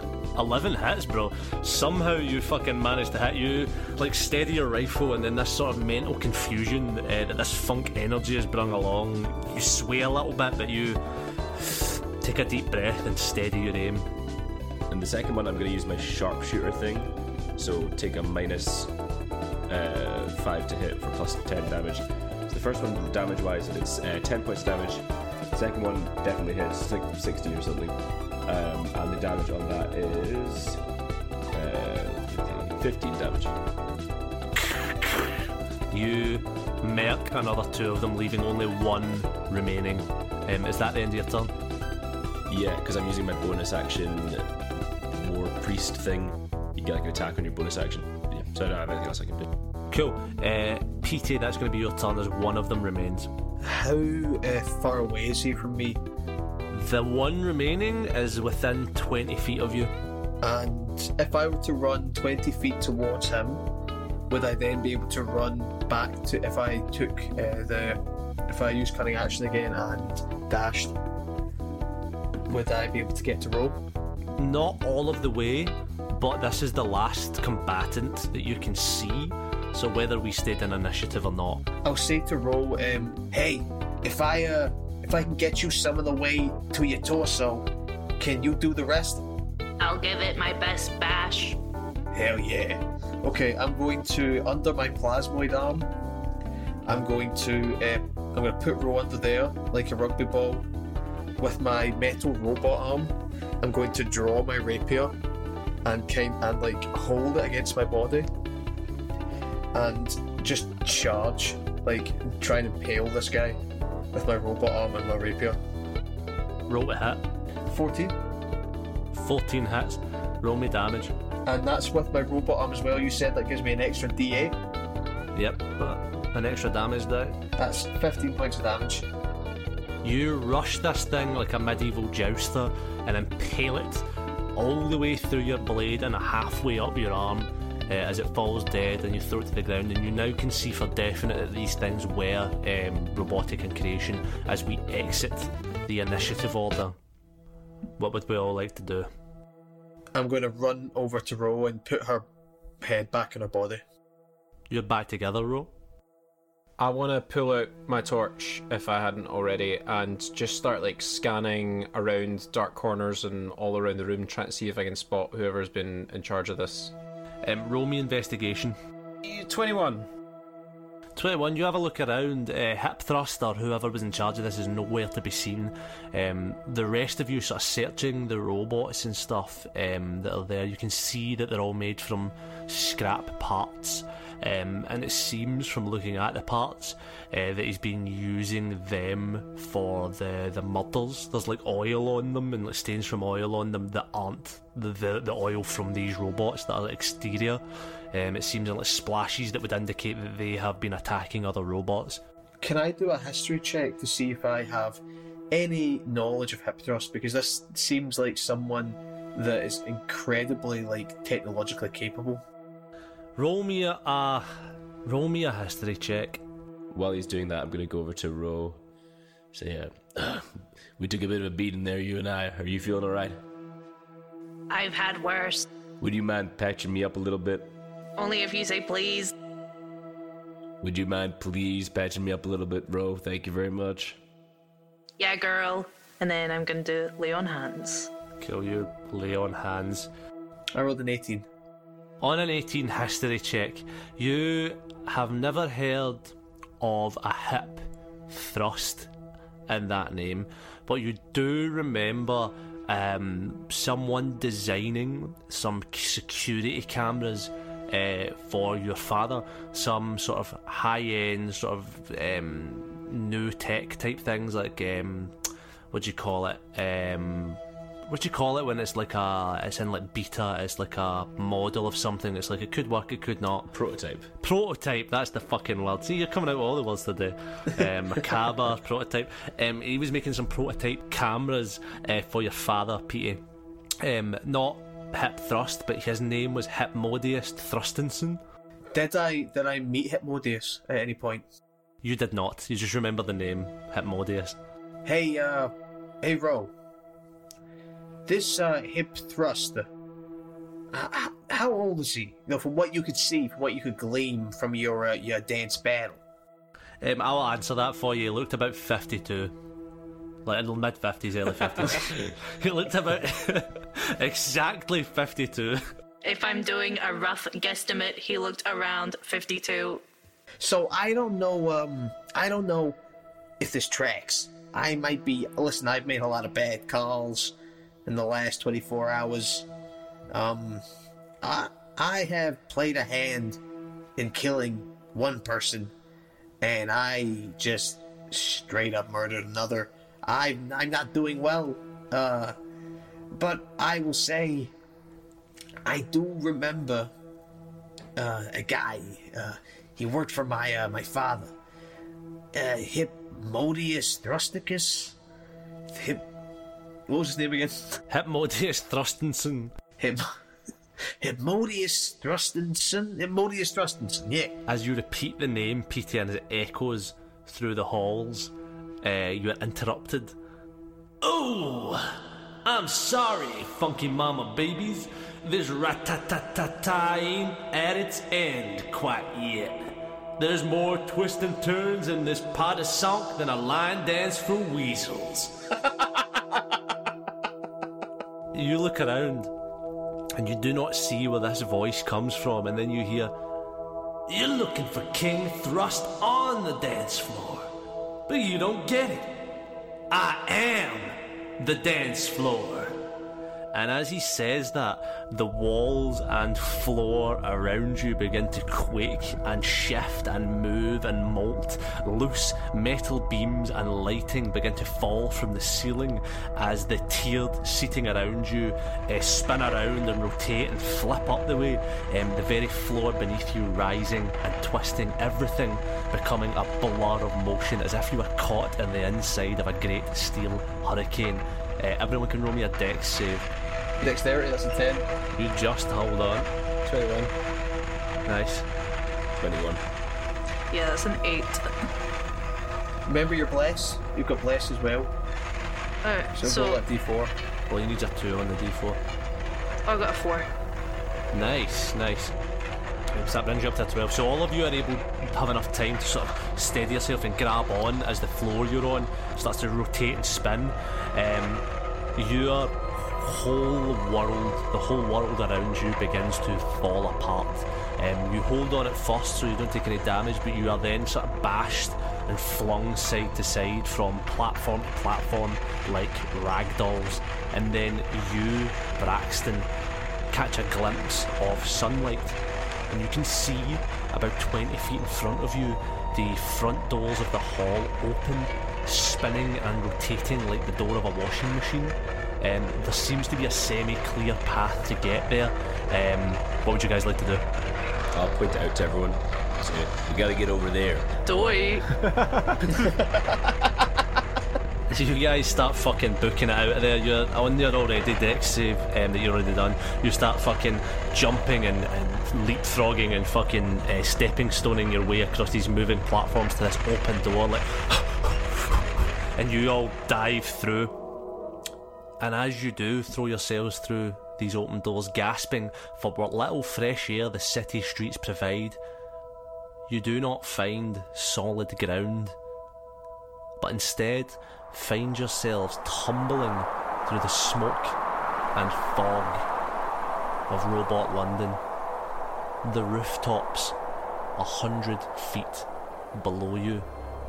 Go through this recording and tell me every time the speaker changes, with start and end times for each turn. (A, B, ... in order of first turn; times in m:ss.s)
0:00.4-0:11.0 A
0:11.6-0:14.1 A
0:14.9-0:18.9 B
0:19.7-0:30.8 B
0:31.5-0:33.6 B
0:34.6-0:41.5 A
0:42.5-0:44.5 B
0:45.1-0:49.5 B
0:49.9-0:53.3 A
0:53.6-0:56.0 C
0:56.7-0:59.9 A
1:00.4-1:03.6 C
1:04.3-1:10.9 C
1:12.5-1:13.8 C
1:14.4-1:21.6 A
1:21.8-1:29.2 C
1:29.8-1:31.6 D
1:32.1-1:35.9 C
1:36.9-1:40.7 C
1:41.4-1:45.1 C
1:45.8-1:48.3 C
1:49.7-1:53.6 C
1:54.1-1:55.6 C
1:56.7-1:57.2 A
1:57.7-1:58.2 C
1:59.1-2:01.1 A
2:01.4-2:04.6 C
2:05.3-2:07.4 A
2:07.6-2:09.0 C
2:10.0-2:26.9 A
2:28.0-2:29.1 A
2:30.1-2:32.2 C
2:32.8-2:33.8 C
2:34.7-2:35.7 A
2:36.8-2:46.9 E
2:47.4-2:48.8 A
2:49.2-2:50.1 E
2:51.2-3:22.2 A
3:22.6-3:25.0 C
3:25.5-3:32.4 C
3:33.4-3:36.4 A
3:36.9-3:38.8 B
3:39.5-3:43.4 B
3:44.7-3:45.7 D
3:46.0-3:47.8 B
3:48.2-3:49.3 D
3:50.8-3:54.2 B
3:55.2-3:58.1 D
3:58.4-4:00.1 A
4:00.7-4:01.5 C
4:02.2-4:09.1 A
4:09.7-4:25.3 A
4:25.9-4:33.7 A
4:33.7-4:34.3 B
4:34.4-4:43.4 A
4:44.0-4:48.4 A
4:48.9-4:51.4 C
4:52.0-4:54.6 A
4:55.0-4:56.7 C
4:58.2-4:59.9 C
5:00.9-5:06.2 C
5:07.0-5:09.5 A
5:10.4-5:15.8 A
5:16.2-5:20.0 D
5:20.6-5:23.0 C
5:23.6-5:29.6 C
5:30.3-5:30.8 C
5:31.4-5:33.6 C
5:34.2-5:35.9 C
5:36.6-5:42.6 C
5:43.4-5:44.7 C
5:45.8-5:47.1 C
5:48.2-5:51.5 C
5:52.5-5:55.2 C
5:55.9-5:56.2 C
5:57.1-5:57.9 C
5:58.1-5:59.7 A
6:00.0-6:00.3 C
6:01.2-6:04.6 C
6:04.7-6:10.4 A
6:11.2-6:25.5 A
6:28.5-6:29.5 A
6:30.4-6:33.3 A
6:34.3-6:37.7 A
6:38.3-6:39.5 A
6:40.1-6:43.0 A
6:43.7-7:13.5 A
7:14.0-7:15.1 C
7:15.3-7:16.5 A
7:16.8-7:17.3 E
7:18.2-7:18.7 A
7:19.4-7:19.8 B
7:20.7-7:21.7 D
7:23.0-7:25.1 C
7:26.0-7:26.8 D
7:26.4-7:27.3 C
7:27.7-7:29.0 A
7:29.8-7:30.5 D
7:31.3-7:32.4 A
7:33.1-7:41.6 A
7:42.2-7:59.7 A
8:00.3-8:17.4 A
8:18.1-8:21.1 B
8:21.2-8:22.0 D
8:22.0-8:22.7 E
8:22.8-8:23.6 C
8:24.9-8:41.0 A
8:42.2-8:48.8 A
8:49.9-8:52.4 A
8:53.6-8:58.0 A
8:58.5-8:59.4 A
9:00.5-9:01.6 A
9:02.6-9:03.7 A
9:04.4-9:06.8 A